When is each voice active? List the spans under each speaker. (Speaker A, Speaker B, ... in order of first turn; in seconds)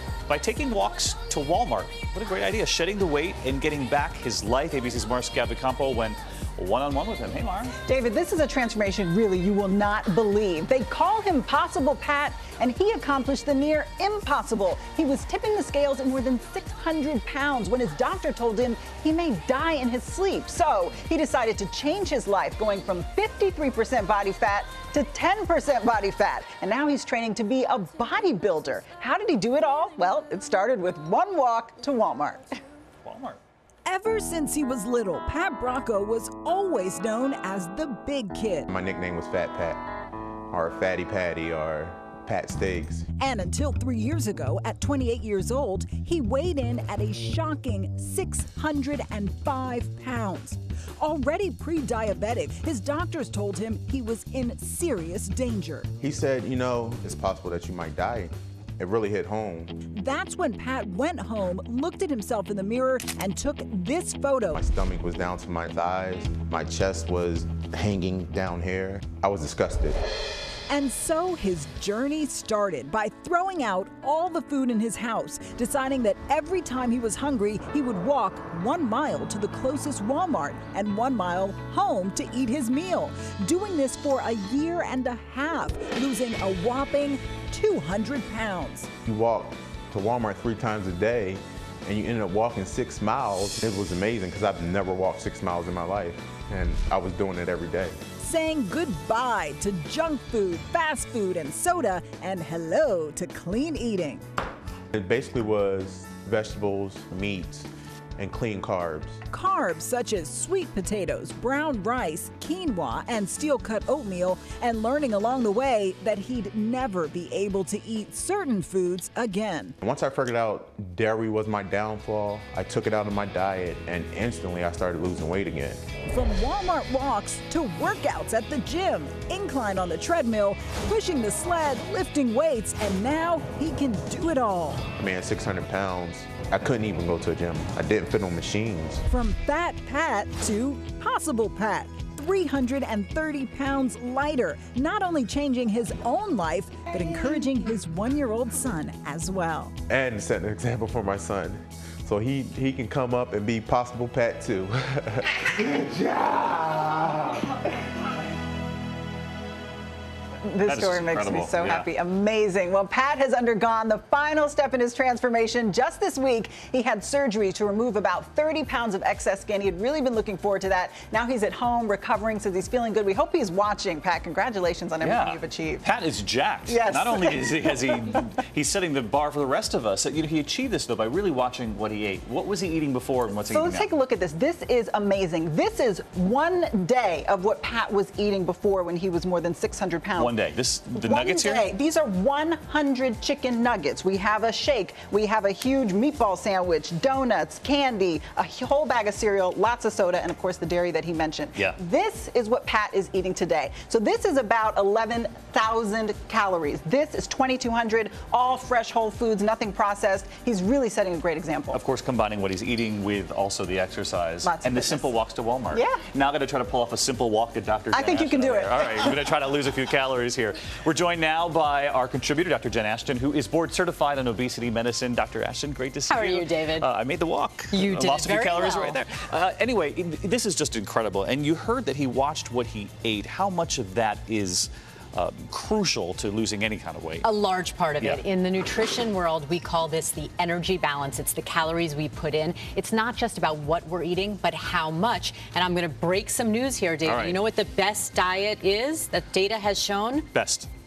Speaker A: 0.3-7.8, 33.0-33.4, 160.7-161.9, 175.0-183.9, 190.2-191.7, 211.7-237.3, 247.1-247.4, 250.3-250.7
Speaker B: 7.9-32.6, 160.4-175.8, 176.7-178.1, 183.5-190.3, 191.0-211.8, 214.4-215.1, 215.7-216.0, 217.9-219.2
Speaker C: 33.9-38.7, 43.1-55.9, 59.9-64.6, 70.7-88.9, 98.2-104.2, 109.3-119.8, 126.1-134.9, 139.1-149.8
Speaker D: 38.7-39.8, 40.5-43.1, 56.0-59.8, 64.5-70.0, 89.1-98.0, 104.9-109.2, 119.8-125.8, 135.0-139.0, 149.9-157.6
Speaker E: 226.1-226.9, 227.7-229.0, 237.2-250.3